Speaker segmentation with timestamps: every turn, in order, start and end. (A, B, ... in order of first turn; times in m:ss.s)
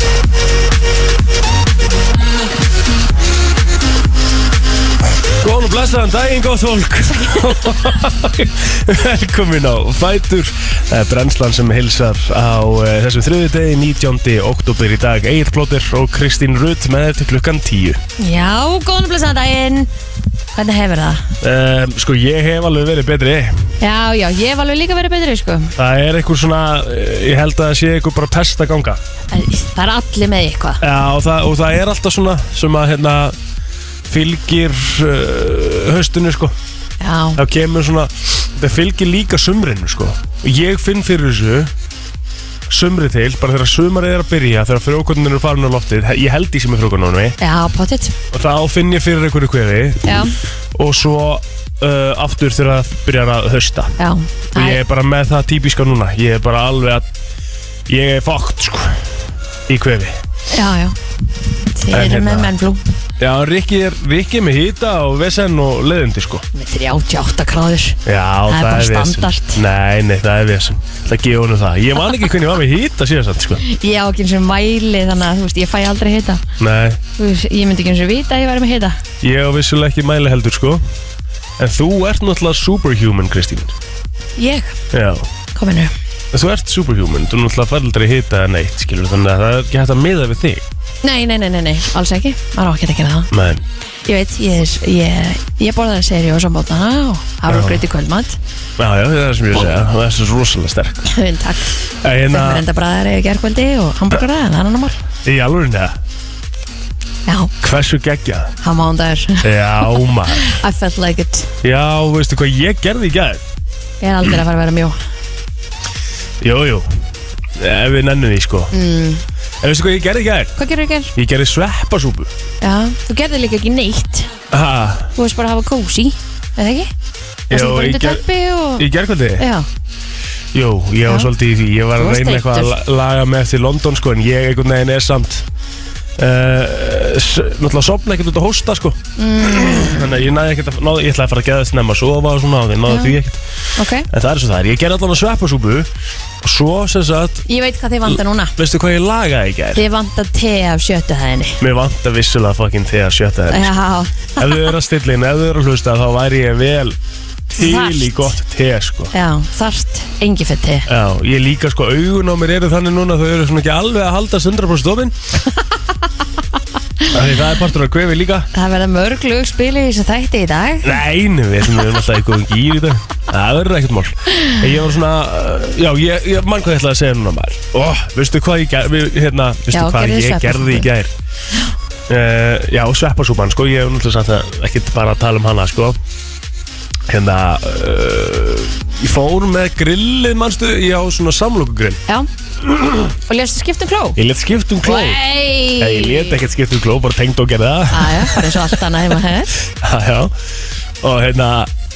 0:05.4-0:18.0 A
0:18.2-0:19.9 B
0:20.5-0:21.3 B
0:21.4-0:23.7 A
0:23.8-0:25.8 B
0:25.8-0:29.0 A
0:29.3-0:30.8 B
0:30.8-0:33.4 A
0:34.1-0:36.6 A
0:37.0-0:37.4 B
0:37.4-0:41.7 A
0:42.7-0:47.4 A
0:47.4-0:48.2 B
0:48.3-0:54.0 A
0:50.0-0:50.4 B
0:54.0-0:54.8 B
0:54.5-0:57.1 A
0:57.9-0:59.1 A
0:59.7-1:00.2 A
1:00.5-1:01.0 B
1:01.7-1:02.8 B
1:01.9-1:02.5 A
1:03.2-1:06.4 A
1:06.5-1:09.6 B
1:08.1-1:13.6 A
1:13.6-1:16.4 B
1:16.6-1:17.0 A
1:17.2-1:19.0 B
1:19.2-1:20.8 A
1:21.6-1:23.7 A
1:24.4-1:24.8 B
1:24.9-1:25.3 A
1:25.5-1:25.9 B
1:26.3-1:30.6 A
1:31.0-1:33.3 B
1:33.3-1:33.6 A
1:34.0-1:38.4 B
1:37.5-1:37.8 A
1:38.8-1:41.1 A
1:41.1-1:45.0 B
1:41.9-1:42.6 A
1:45.2-1:46.0 A
1:47.3-1:47.5 B
1:47.6-1:48.5 A
1:48.6-1:51.5 B
1:49.4-1:50.6 A
1:51.6-1:53.4 A
1:54.0-1:55.0 B
1:56.4-1:56.9 A
1:57.6-1:58.7 A
1:58.7-1:59.2 B
1:59.6-2:00.5 A
2:00.6-2:01.1 B
2:01.2-2:02.3 A
2:02.6-2:04.3 B
2:04.5-2:05.1 A
2:05.2-2:06.9 B
2:07.5-2:08.2 A
2:07.5-2:09.7 B
2:08.8-2:09.5 A
2:10.5-2:15.5 A
2:11.0-2:11.3 B
2:12.0-2:12.8 B
2:16.2-2:25.9 A
2:19.2-2:20.1 B
2:22.9-2:23.2 B
2:23.8-2:24.1 B
2:26.4-2:27.4 A
2:27.5-2:28.6 B
2:28.1-2:29.8 A
2:29.7-2:31.6 B
2:31.6-2:33.7 A
2:33.5-2:34.7 B
2:34.4-2:37.0 A
2:37.5-2:39.1 A
2:37.6-2:38.4 B
2:39.1-2:40.9 B
2:40.9-2:45.2 A
2:47.1-2:48.5 A
2:48.5-2:51.0 B
2:50.8-3:01.1 A
2:59.7-3:00.9 B
3:02.1-3:06.0 A
3:07.1-3:12.0 A
3:12.6-3:13.1 A
3:13.3-3:14.2 B
3:14.2-3:18.8 A
3:14.8-3:16.4 B
3:17.9-3:19.5 B
3:19.7-3:20.3 A
3:21.0-3:21.7 A